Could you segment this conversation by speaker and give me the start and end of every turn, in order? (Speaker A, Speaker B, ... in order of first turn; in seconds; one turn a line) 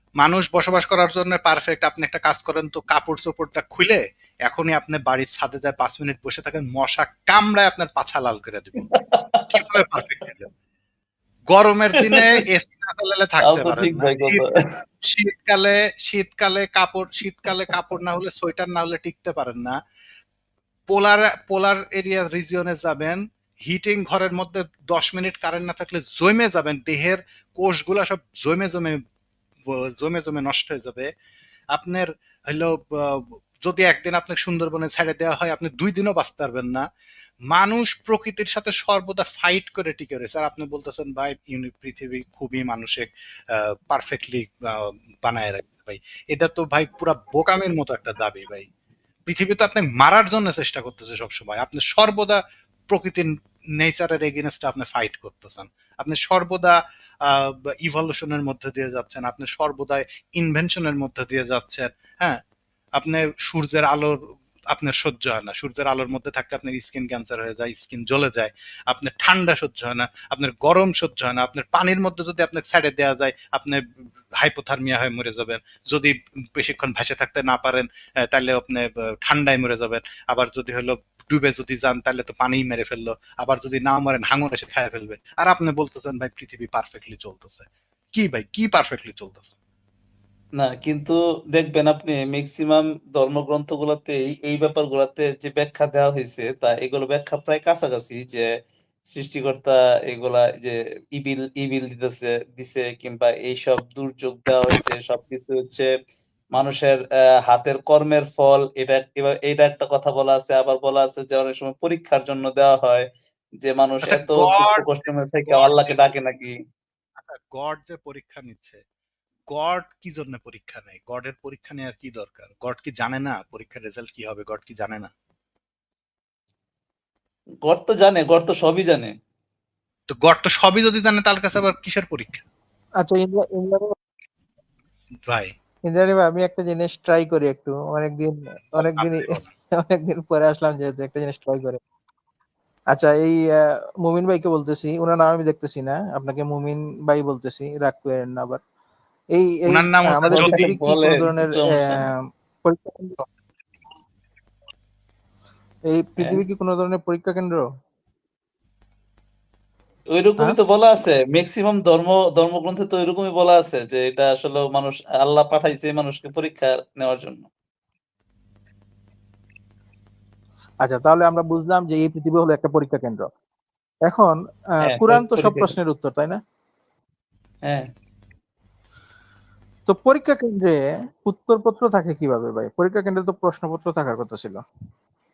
Speaker A: 0.2-8.9
Speaker B: 8.9-9.5
Speaker A: 9.5-10.5
Speaker A: 11.5-14.4
Speaker B: 12.1-12.3
Speaker B: 13.4-14.4
Speaker A: 15.0-19.8
Speaker A: 20.9-29.0
Speaker A: 29.7-31.1
Speaker A: 31.7-36.9
Speaker A: 37.5-48.7
Speaker A: 49.3-62.4
Speaker A: 63.0-89.5
Speaker B: 90.6-98.5
Speaker B: 99.1-105.9
Speaker B: 106.5-113.1
Speaker B: 113.6-116.5
Speaker A: 114.0-116.1
Speaker A: 117.2-118.8
Speaker A: 119.5-125.1
Speaker B: 127.6-129.2
Speaker A: 130.1-132.4
Speaker C: 133.0-133.9
Speaker A: 135.3-135.5
Speaker C: 135.9-141.8
Speaker A: 138.8-139.5
Speaker C: 142.9-148.6
Speaker C: 149.3-153.3
Speaker A: 149.7-150.7
Speaker B: 150.3-152.0
Speaker C: 155.9-157.7
Speaker B: 160.1-167.5
Speaker C: 170.8-173.3
Speaker C: 174.1-176.4
Speaker B: 174.8-175.7
Speaker C: 179.9-184.6